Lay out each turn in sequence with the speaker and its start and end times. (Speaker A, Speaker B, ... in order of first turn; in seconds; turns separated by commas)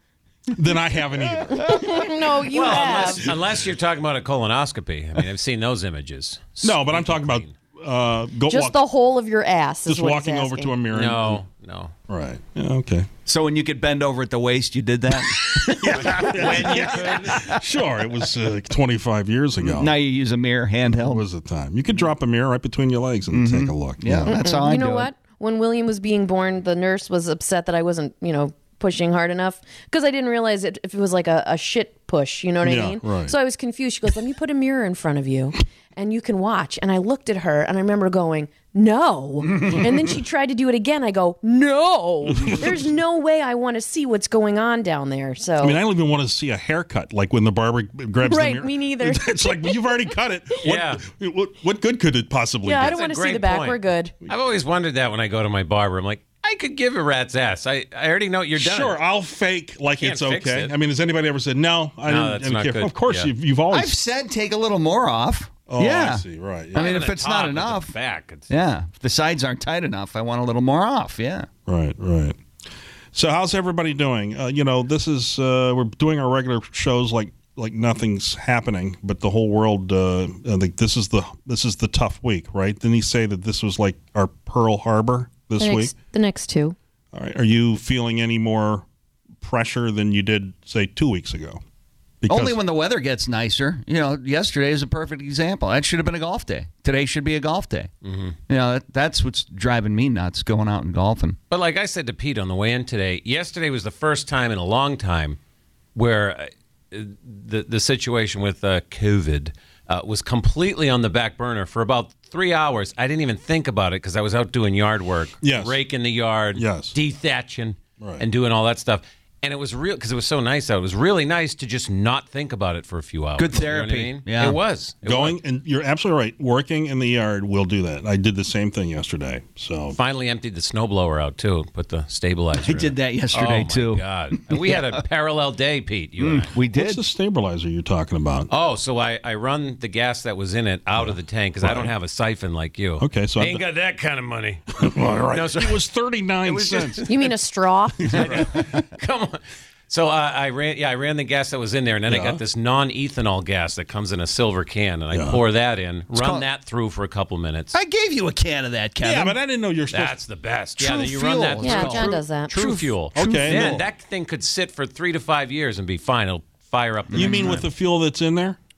Speaker A: 0.5-3.6, Speaker B: 1.5-3.3, Speaker C: 2.5-7.5, Speaker A: 6.6-8.8, Speaker B: 8.5-10.8, Speaker A: 9.9-11.4, Speaker C: 10.9-11.9, Speaker A: 12.1-13.1, Speaker D: 13.3-17.5, Speaker A: 15.8-19.9, Speaker C: 15.8-17.4, Speaker D: 19.6-21.2, Speaker A: 20.9-24.4, Speaker D: 23.3-25.1, Speaker B: 24.3-45.8, Speaker A: 32.6-33.4, Speaker A: 42.3-42.9, Speaker A: 45.6-53.0, Speaker B: 48.2-49.9, Speaker C: 50.6-51.0, Speaker B: 52.6-54.1, Speaker C: 52.8-59.0, Speaker A: 58.6-64.0, Speaker C: 60.0-60.8, Speaker C: 62.1-63.3, Speaker D: 63.7-66.2, Speaker A: 65.7-66.9, Speaker C: 66.7-68.5, Speaker D: 66.8-67.9, Speaker D: 68.5-71.5, Speaker A: 71.7-72.4, Speaker A: 73.1-85.9, Speaker B: 85.6-86.8, Speaker A: 87.1-88.9, Speaker A: 89.4-91.6, Speaker A: 92.2-92.6, Speaker D: 92.3-97.9, Speaker C: 98.0-98.4, Speaker D: 98.5-101.4, Speaker C: 101.5-105.4, Speaker C: 106.0-125.4, Speaker A: 115.4-115.8, Speaker A: 116.5-117.0, Speaker D: 123.4-124.6, Speaker A: 125.0-130.0, Speaker C: 129.9-136.6, Speaker D: 132.6-134.8, Speaker D: 136.2-137.0, Speaker A: 136.7-138.5, Speaker C: 138.5-145.9, Speaker A: 141.0-141.9, Speaker A: 143.0-143.7, Speaker A: 144.8-147.1, Speaker D: 146.5-147.0, Speaker C: 146.6-147.1, Speaker B: 147.1-148.2, Speaker A: 148.1-148.5, Speaker C: 148.1-157.7, Speaker A: 152.1-152.4, Speaker A: 155.1-155.4, Speaker D: 156.1-156.5, Speaker D: 157.7-159.4, Speaker A: 159.0-160.2, Speaker C: 159.9-167.7, Speaker D: 160.8-163.8, Speaker B: 161.6-162.6, Speaker A: 163.2-163.8, Speaker D: 167.1-167.6, Speaker A: 167.1-168.6